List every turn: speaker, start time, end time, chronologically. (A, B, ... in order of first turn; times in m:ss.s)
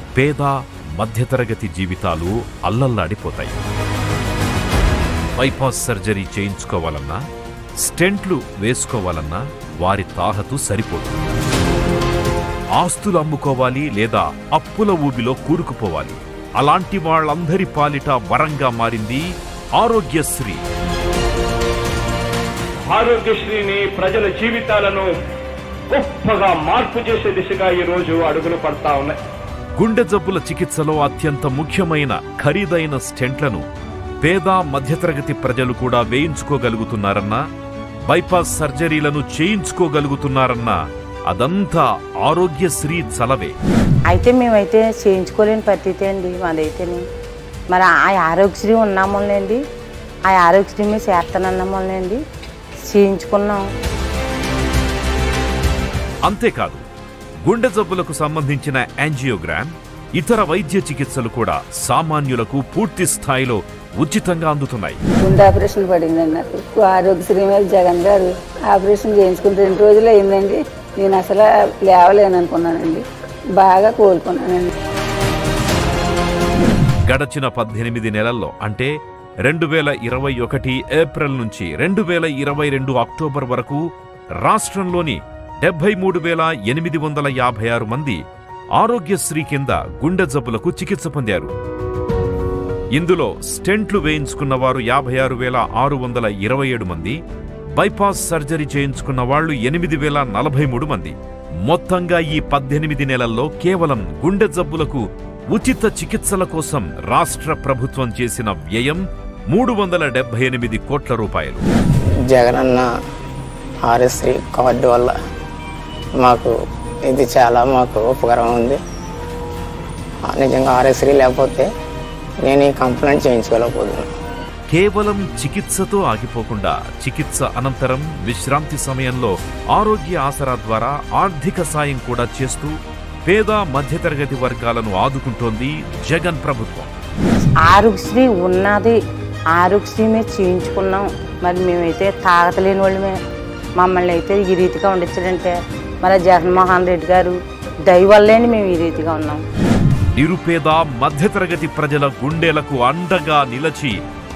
0:00.2-0:03.6 A
0:05.4-0:07.2 A
0:07.8-0:11.1 A
0:12.8-0:20.6 A
0:22.9-0:25.1 B
0:25.9-0:29.2 B
0:29.8-0:33.6 A
0:34.2-0:37.4 A
0:38.1-0:40.8 A
0:41.3-0:43.5 A
0:44.1-0:47.0 C
0:47.7-0:49.6 C
0:50.3-0:52.2 C
0:52.8-0:53.7 C
0:56.2-0:56.8 A
0:57.4-1:05.0 A
1:05.2-1:13.0 D
1:13.6-1:14.7 D
1:17.0-1:18.9 A
1:19.4-1:23.8 A
1:24.4-1:28.2 A
1:28.8-1:31.5 A
1:33.0-1:37.2 A
1:37.7-1:41.1 A
1:41.6-1:51.6 A
1:52.3-1:52.8 E
1:53.9-1:55.1 E
1:56.2-1:56.5 E
1:57.1-1:58.8 E
2:00.3-2:01.7 E
2:02.4-2:04.1 E
2:04.7-2:12.7 A
2:13.2-2:16.9 A
2:17.6-2:19.0 C
2:19.5-2:23.2 C
2:23.8-2:29.4 C
2:30.1-2:34.0 A